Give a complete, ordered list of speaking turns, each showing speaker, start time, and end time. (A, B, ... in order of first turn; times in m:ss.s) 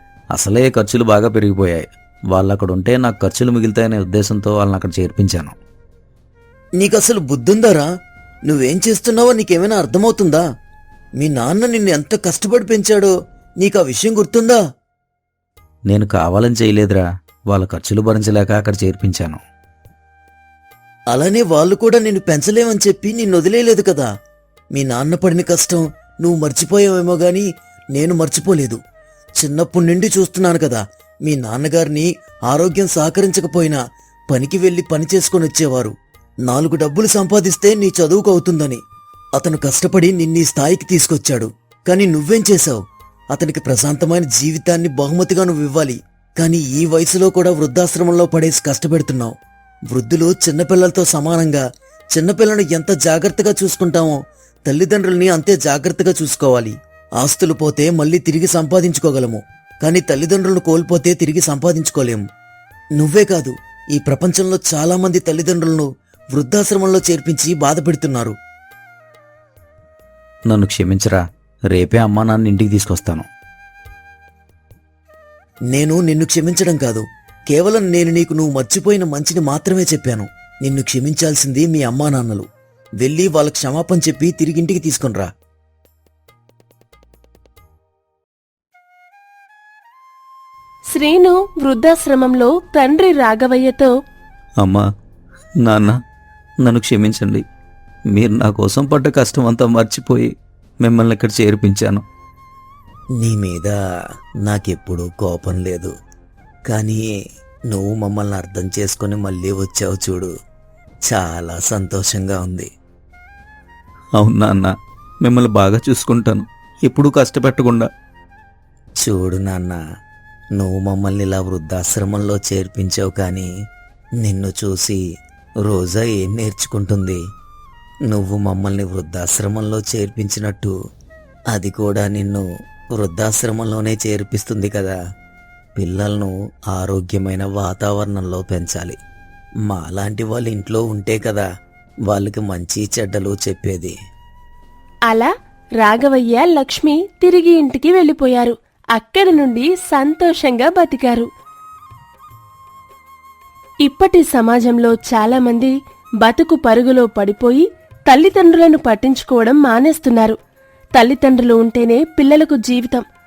0:00.3-0:05.6 A
0:06.8-0:07.9 B
0:08.5-0:10.4 B
0:11.2-0:14.6 B
0:15.9-0:19.4 A
0:21.1-0:24.1 B
0:24.8-0:27.4 B
0:28.0-0:28.8 B
0:29.4-0:33.8 B
0:34.3-0:35.9 B
0:36.5-0:38.8 B
0:39.4-0:42.8 B
0:43.3-0:49.3 B
0:49.9-0:51.6 B
0:52.1-1:02.2 B
1:03.0-1:08.4 B
1:10.5-1:13.2 A
1:15.7-1:22.4 B
1:23.0-1:25.3 B
1:30.9-1:33.9 C
1:35.6-1:36.0 A
1:36.6-1:37.4 A
1:38.1-1:40.3 A
1:40.8-1:42.0 A
1:43.2-1:43.7 B
1:44.4-1:45.9 B
1:46.7-1:47.0 B
1:47.7-1:50.3 B
1:51.1-1:52.7 B
1:54.2-1:54.7 A
1:55.2-1:57.9 A
1:59.0-1:59.8 B
2:00.6-2:03.5 B
2:04.2-2:05.0 B
2:05.6-2:07.2 B
2:08.1-2:10.7 B
2:11.5-2:12.4 B
2:13.0-2:15.0 B
2:15.8-2:19.0 B
2:19.7-2:21.4 B
2:22.1-2:23.9 B
2:25.8-2:31.3 C
2:33.8-2:40.4 C
2:41.0-2:43.0 C